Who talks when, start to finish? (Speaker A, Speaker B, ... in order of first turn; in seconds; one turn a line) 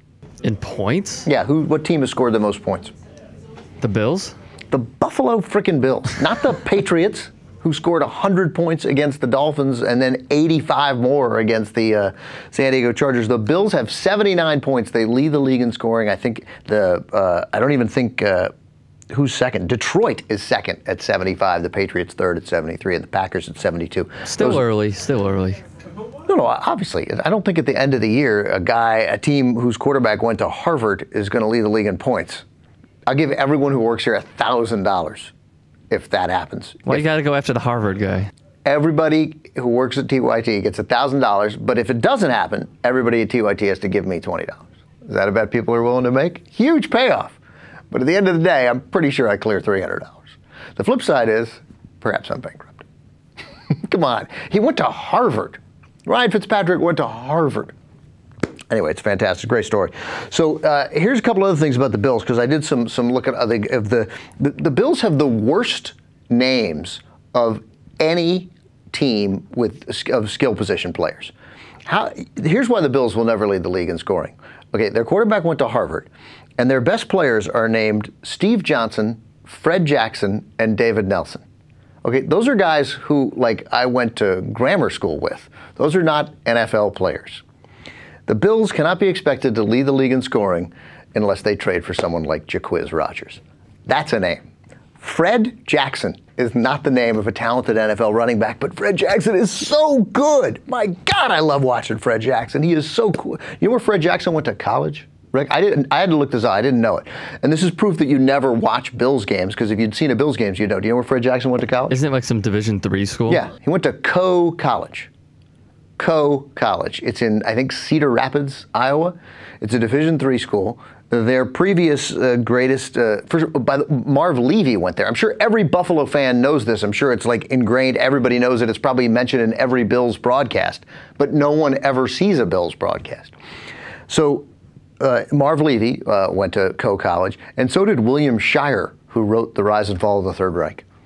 Speaker A: 0.4-1.3
Speaker B: 1.2-2.9
Speaker A: 3.8-4.3
Speaker B: 4.7-18.5
Speaker B: 19.1-24.6
Speaker A: 24.2-25.6
Speaker B: 26.2-32.4
Speaker B: 33.1-35.3
Speaker B: 35.9-37.0
Speaker A: 36.9-38.3
Speaker B: 38.6-47.4
Speaker B: 47.9-52.8
Speaker B: 53.7-57.7
Speaker B: 58.7-71.3
Speaker B: 71.8-81.4
Speaker B: 82.0-87.4
Speaker B: 88.3-94.4
Speaker B: 95.0-112.0
Speaker A: 111.9-113.4
Speaker B: 113.3-115.1
Speaker B: 116.0-133.3
Speaker B: 134.1-134.5
Speaker B: 135.0-140.8